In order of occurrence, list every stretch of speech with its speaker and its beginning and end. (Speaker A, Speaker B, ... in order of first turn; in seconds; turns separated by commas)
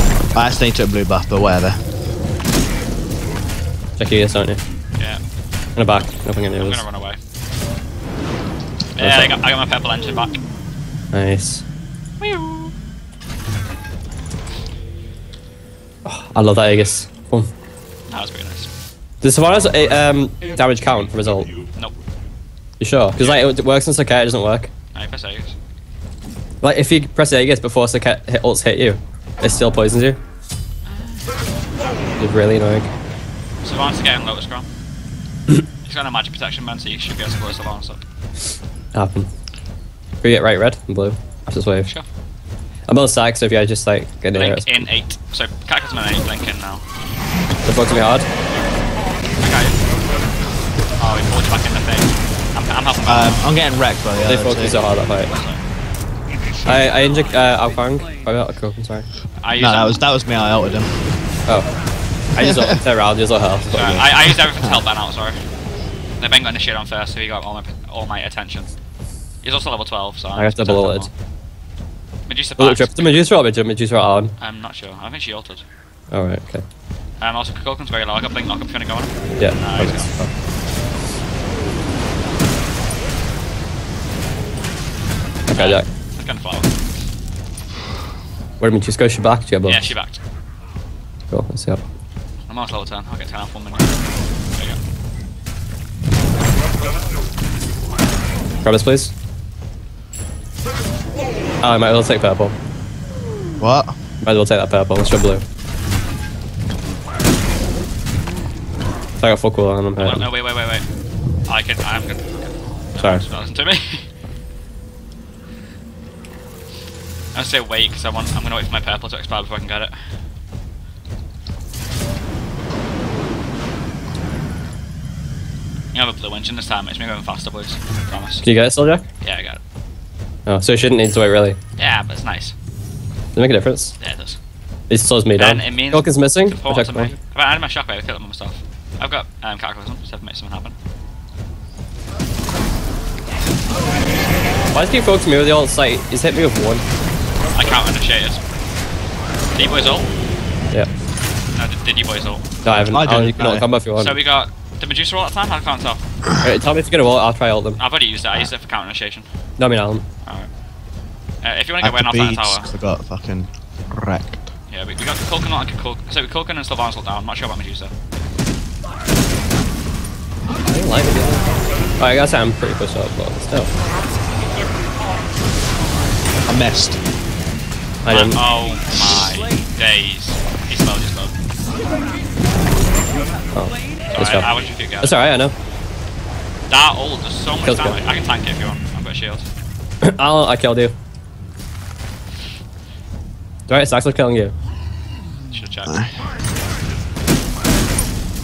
Speaker A: 0.3-1.8, Speaker B: 4.0-4.6, Speaker B: 5.8-6.8, Speaker C: 6.6-7.2, Speaker C: 8.9-10.4, Speaker B: 9.0-9.4, Speaker B: 11.1-11.6, Speaker C: 12.2-12.7, Speaker B: 16.1-17.5, Speaker C: 18.1-18.7, Speaker B: 19.2-21.5, Speaker B: 22.8-24.7, Speaker C: 23.2-23.5, Speaker C: 24.9-25.6, Speaker B: 26.6-30.2, Speaker C: 30.9-31.4, Speaker B: 32.2-32.9, Speaker C: 33.6-34.7, Speaker C: 35.9-38.0, Speaker B: 38.9-39.3, Speaker B: 40.2-41.9, Speaker B: 42.9-44.9, Speaker C: 44.3-46.8, Speaker B: 47.7-48.3, Speaker C: 49.4-49.8, Speaker C: 51.0-53.6, Speaker A: 53.1-54.8, Speaker B: 54.2-55.3, Speaker C: 55.2-55.6, Speaker B: 56.6-59.1, Speaker C: 59.4-60.0, Speaker A: 59.6-61.0, Speaker B: 62.4-64.0, Speaker A: 62.4-62.8, Speaker C: 63.7-65.4, Speaker A: 63.8-64.8, Speaker C: 66.2-68.7, Speaker C: 69.4-71.1, Speaker B: 70.4-71.1, Speaker C: 72.3-73.3, Speaker B: 72.6-74.3, Speaker C: 74.4-75.6, Speaker B: 76.1-76.6, Speaker C: 77.2-80.1, Speaker B: 79.4-80.3, Speaker B: 85.5-85.9, Speaker C: 85.5-86.7, Speaker B: 88.6-89.9, Speaker C: 89.7-90.2, Speaker B: 91.3-91.8, Speaker C: 92.5-93.9, Speaker B: 98.6-99.1, Speaker B: 101.6-102.5, Speaker A: 103.6-104.0, Speaker B: 104.2-105.4, Speaker B: 109.2-110.3, Speaker C: 110.0-110.9, Speaker C: 111.5-114.1, Speaker C: 117.3-120.0, Speaker C: 125.9-128.5, Speaker B: 128.4-129.0, Speaker C: 129.2-129.6, Speaker B: 130.5-131.6, Speaker C: 131.8-132.6, Speaker B: 133.3-133.9, Speaker C: 134.0-134.4, Speaker B: 134.9-137.2, Speaker C: 135.3-140.8, Speaker B: 144.7-146.8, Speaker C: 147.5-148.4, Speaker C: 149.6-150.1, Speaker C: 151.6-152.5, Speaker B: 152.6-154.2, Speaker A: 152.9-153.7, Speaker C: 153.9-156.0, Speaker B: 156.4-157.8, Speaker C: 157.8-159.3, Speaker B: 159.6-160.1, Speaker C: 160.2-160.5, Speaker C: 161.4-162.7, Speaker A: 161.8-164.5, Speaker C: 164.7-167.9, Speaker B: 170.7-171.5, Speaker B: 172.0-173.7, Speaker A: 176.4-177.0, Speaker B: 178.0-178.4, Speaker C: 178.1-181.3, Speaker B: 183.5-184.5, Speaker C: 184.1-185.2, Speaker B: 185.0-185.5, Speaker C: 186.7-189.5, Speaker B: 187.6-188.0, Speaker B: 190.0-191.0, Speaker B: 193.7-194.5, Speaker C: 195.5-196.0, Speaker A: 195.9-196.2